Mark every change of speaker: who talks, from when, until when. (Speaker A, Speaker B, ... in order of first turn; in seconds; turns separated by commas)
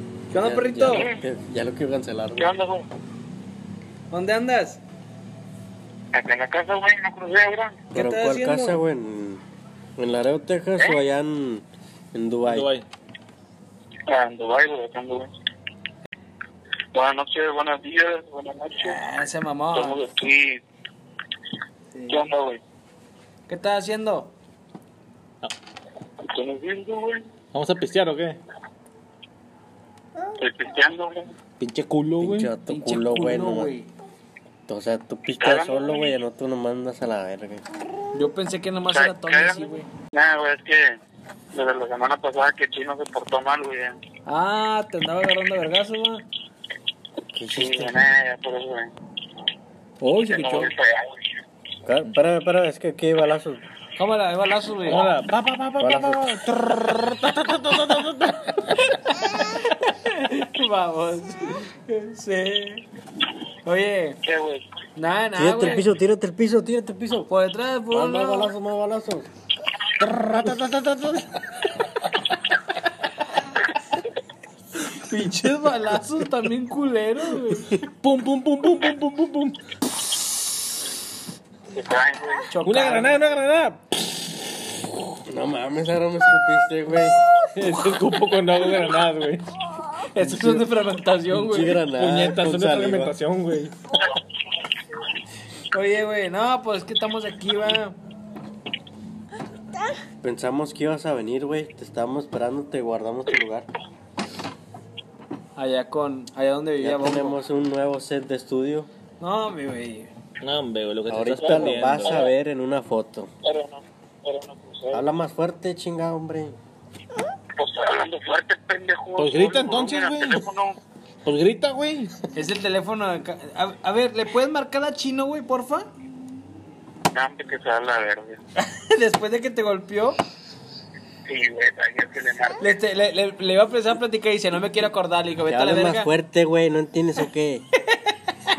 Speaker A: 0.3-1.1, Speaker B: 0.3-2.6, Speaker C: 0.8-1.2, Speaker C: 2.4-2.9, Speaker A: 4.1-4.8, Speaker C: 6.1-7.8, Speaker A: 7.9-8.8, Speaker B: 7.9-9.4, Speaker B: 10.0-12.7, Speaker D: 12.4-12.9, Speaker C: 14.1-15.3, Speaker C: 16.9-19.0, Speaker A: 18.8-20.0, Speaker C: 19.7-20.6, Speaker A: 21.9-22.3, Speaker C: 22.1-22.6, Speaker A: 23.5-24.3, Speaker C: 26.2-27.3, Speaker D: 27.5-28.4, Speaker C: 30.4-31.3, Speaker D: 31.6-32.5, Speaker B: 32.2-33.7, Speaker A: 32.7-33.9, Speaker B: 34.7-37.6, Speaker C: 35.4-36.1, Speaker A: 38.1-39.9, Speaker C: 38.9-41.0, Speaker C: 41.5-44.0, Speaker A: 44.2-46.2, Speaker B: 47.3-48.0, Speaker C: 47.5-48.9, Speaker A: 50.0-50.7, Speaker C: 50.2-51.2, Speaker B: 51.8-53.6, Speaker A: 54.0-55.0, Speaker D: 54.9-58.8, Speaker B: 55.8-56.4, Speaker A: 59.2-62.9, Speaker A: 63.6-64.2, Speaker C: 64.2-64.6, Speaker A: 65.0-65.9, Speaker B: 65.3-67.3, Speaker A: 67.3-68.5, Speaker B: 67.9-69.3, Speaker D: 70.0-71.7, Speaker A: 74.9-77.7, Speaker D: 77.8-79.6, Speaker C: 81.7-82.5, Speaker A: 82.5-83.2, Speaker D: 82.6-84.0, Speaker B: 85.2-87.2, Speaker D: 87.5-89.5, Speaker A: 90.1-91.8, Speaker B: 90.2-90.6, Speaker B: 91.3-93.2, Speaker D: 91.9-93.7, Speaker A: 95.7-98.0, Speaker B: 100.2-103.7, Speaker A: 105.5-107.4, Speaker B: 106.8-108.9, Speaker A: 109.2-110.1, Speaker D: 110.4-112.3, Speaker B: 111.1-113.3, Speaker C: 111.5-112.3, Speaker C: 113.4-115.0, Speaker B: 114.9-116.6, Speaker C: 117.5-120.8, Speaker D: 119.2-120.4, Speaker D: 121.2-122.2, Speaker A: 122.3-125.9, Speaker C: 127.1-128.4, Speaker A: 128.6-130.2, Speaker C: 131.2-132.8, Speaker A: 132.6-136.1, Speaker B: 135.4-137.6